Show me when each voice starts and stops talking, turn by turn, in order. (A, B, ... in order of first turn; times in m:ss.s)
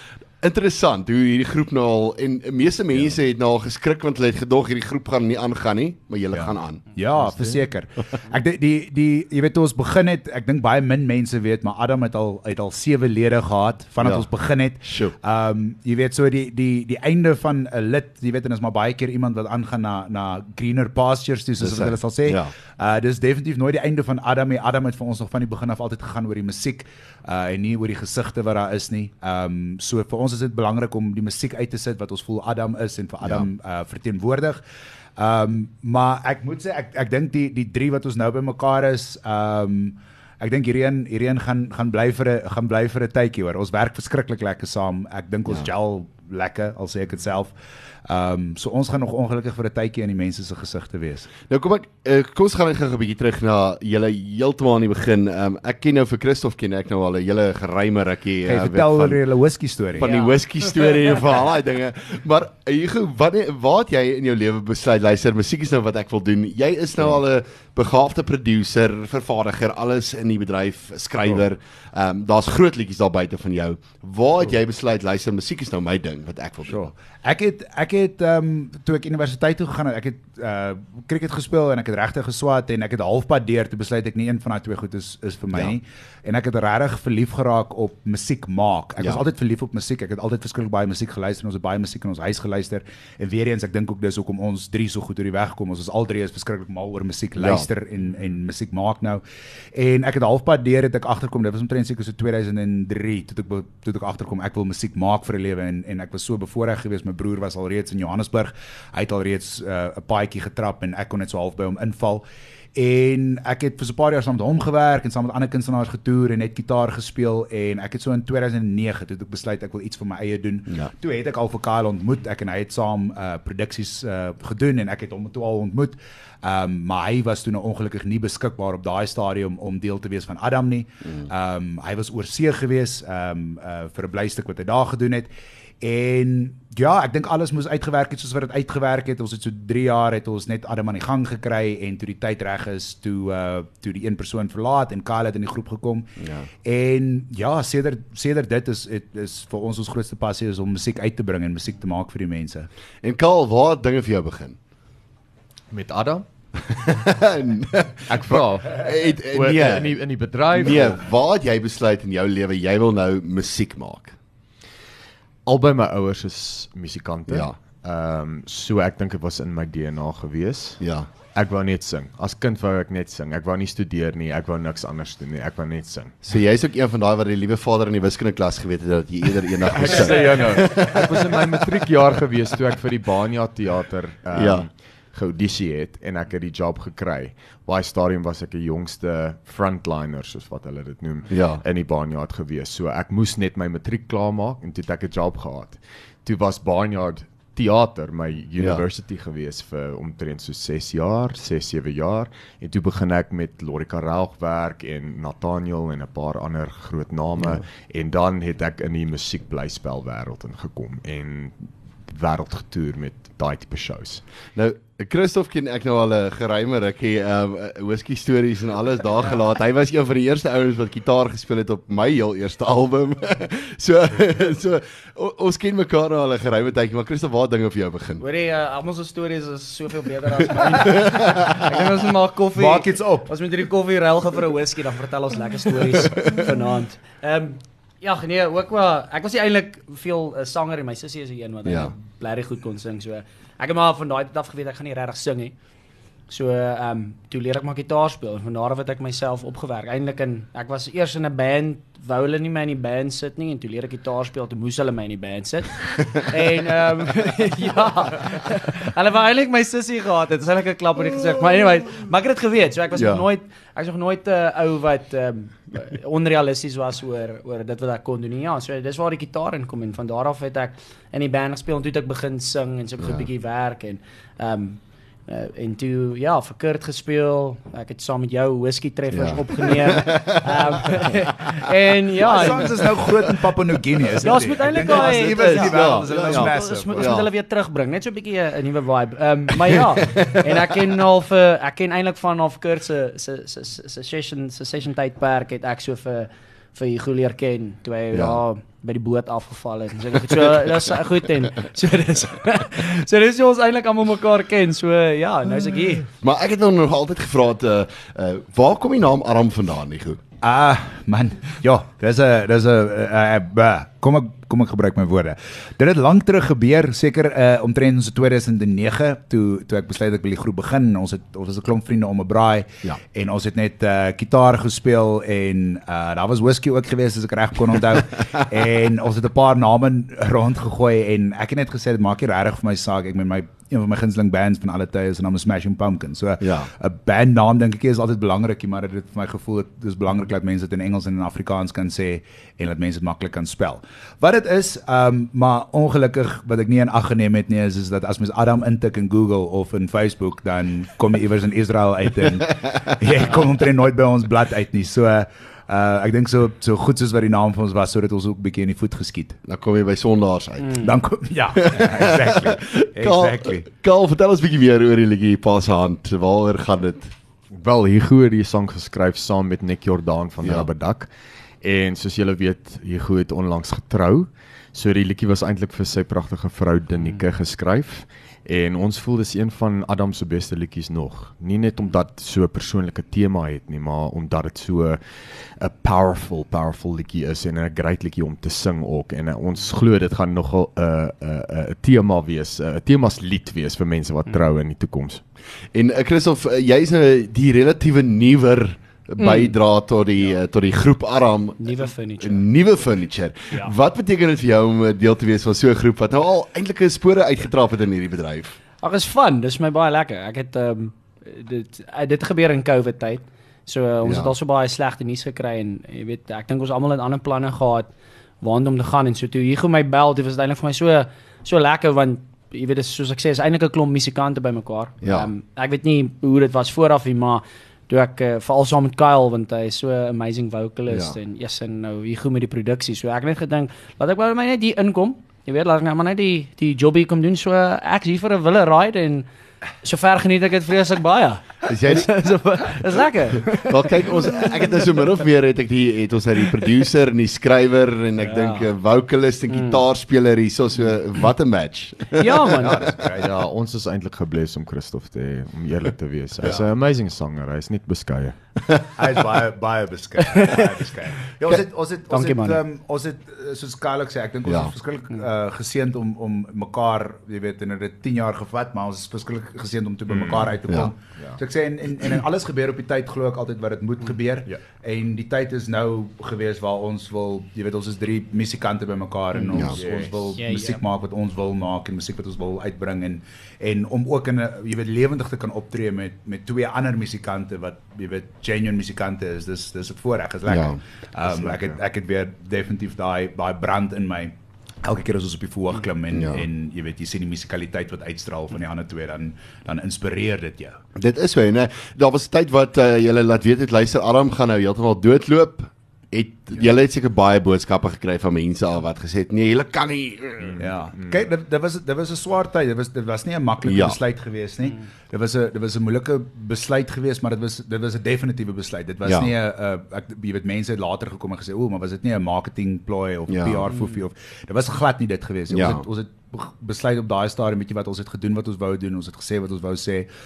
0:00.4-0:06.8 A
0:06.3-0:34.6 B
0:14.0-0:14.2 A
0:14.8-0:15.1 A
0:21.6-0:22.5 A
0:33.2-0:33.5 A
0:35.2-0:47.5 B
0:48.0-0:51.3 B
0:51.5-0:59.2 A
0:58.4-1:00.1 B
1:00.0-1:16.9 A
1:00.0-1:01.2 C
1:16.7-1:39.2 B
1:37.4-1:37.6 A
1:39.7-1:52.2 B
1:52.7-2:15.3 B
2:15.8-2:26.1 B
2:26.2-2:26.5 A
2:26.6-2:32.7 B
2:33.0-2:34.6 A
2:35.7-2:36.2 D
2:36.6-2:40.0 A
2:38.1-2:41.0 D
2:40.5-2:44.2 A
2:45.4-2:50.8 D
2:47.3-2:47.6 A
2:50.8-2:51.1 A
2:51.3-2:56.2 D
2:56.2-3:01.6 A
2:59.7-3:34.2 D
3:04.3-3:04.7 A
3:11.3-3:11.6 A
3:18.6-3:18.8 A
3:34.5-3:48.2 A
3:48.2-4:05.5 C
3:50.8-3:51.6 A
3:52.5-3:53.3 B
4:01.6-4:01.9 A
4:06.3-4:43.1 C
4:22.9-4:23.2 A
4:33.0-4:33.2 A
4:39.1-4:41.1 A
4:42.2-4:47.1 B
4:44.2-5:06.1 C
4:44.8-4:47.3 A
4:50.0-4:50.4 A
4:58.1-4:58.4 A
5:06.2-5:10.2 A
5:10.4-5:59.4 B
5:36.4-5:36.7 A
5:59.5-6:00.9 A
6:00.8-6:03.7 B
6:01.6-6:07.1 A
6:07.5-6:11.1 D
6:10.4-6:10.7 A
6:11.6-6:35.2 D
6:35.7-6:48.6 A
6:39.2-6:39.5 C
6:41.6-6:42.4 C
6:48.8-7:19.2 C
6:54.0-6:54.3 A
7:05.0-7:05.3 A
7:10.9-7:11.2 A
7:19.8-7:24.5 C
7:21.6-7:22.1 A
7:23.5-7:32.6 A
7:28.2-7:28.7 C
7:29.5-7:29.8 C
7:32.1-7:32.9 C
7:32.6-7:33.3 B
7:33.1-7:38.4 D
7:38.9-8:20.8 B
7:40.2-7:40.7 C
7:41.4-7:42.6 C
7:44.5-7:44.7 A
7:50.1-7:51.4 D
7:59.5-7:59.8 A
7:59.7-8:00.4 D
8:00.4-8:00.8 C
8:10.5-8:11.8 A
8:16.1-8:16.4 A
8:21.0-8:30.7 A
8:30.6-8:50.1 B
8:33.6-8:34.0 A
8:39.0-8:39.3 A
8:43.3-8:43.6 A
8:45.5-8:45.8 A